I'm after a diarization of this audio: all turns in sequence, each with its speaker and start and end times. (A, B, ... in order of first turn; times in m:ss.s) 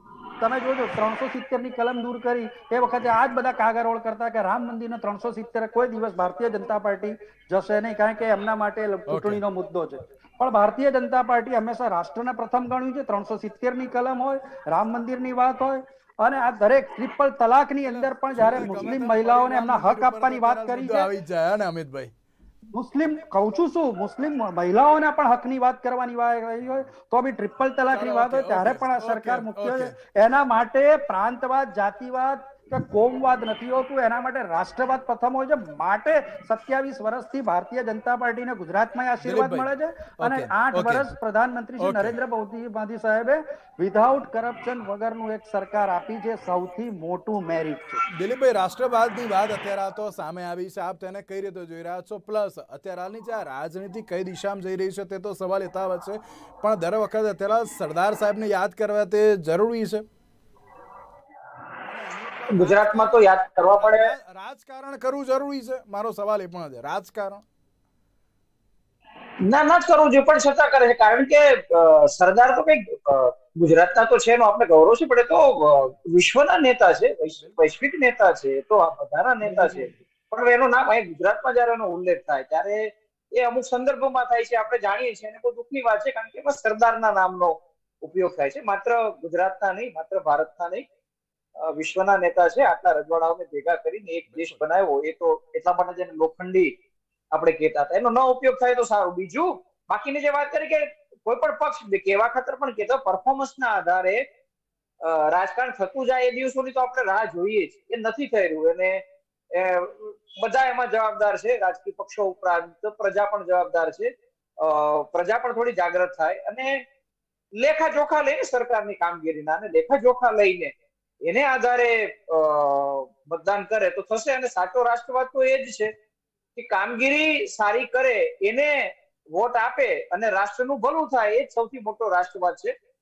0:00.4-0:21.1 A
0:09.1-0:09.4 B
0:17.8-0:22.1 B
0:22.7-0:48.0 A
0:27.9-0:30.0 B
0:39.2-0:41.1 B
0:41.8-0:42.2 B
0:48.1-1:00.0 B
1:01.8-1:07.4 B
1:02.5-1:04.1 C
1:09.4-1:30.8 C
1:31.6-1:36.7 C
1:34.3-1:34.6 B
1:37.3-1:44.2 C
1:45.0-1:56.8 C
1:57.6-2:00.7 C
2:01.2-2:05.9 C
2:06.6-2:12.7 C